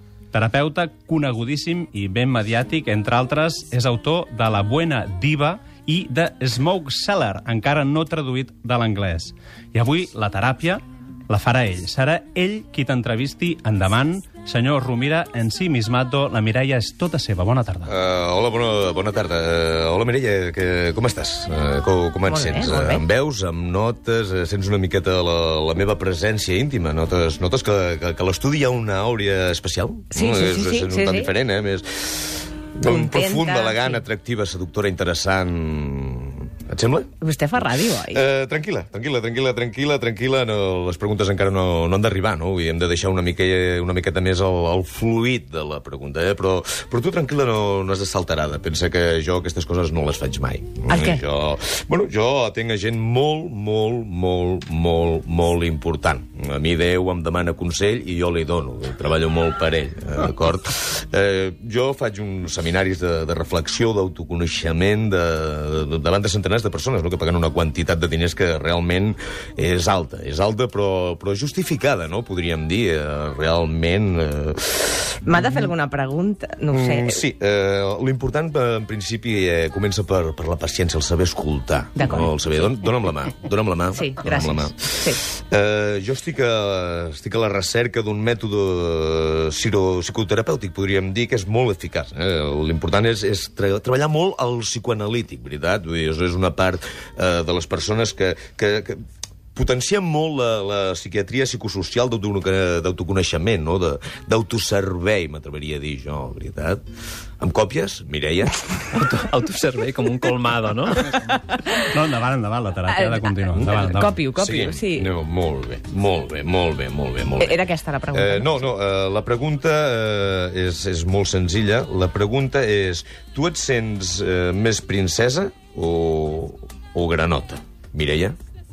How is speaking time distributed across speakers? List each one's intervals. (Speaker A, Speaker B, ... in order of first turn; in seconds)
Speaker A: 0.3-17.9, 111.2-114.2
Speaker B: 17.9-37.1, 38.1-75.7, 76.7-99.0, 99.5-106.8, 107.4-109.0, 113.6-128.4
Speaker C: 22.3-23.0, 30.1-31.3, 32.8-34.0, 37.2-38.2, 50.9-51.2, 75.2-77.2, 82.0-82.7, 83.9-85.2, 112.9-115.1, 117.4-118.7
Speaker D: 108.9-111.2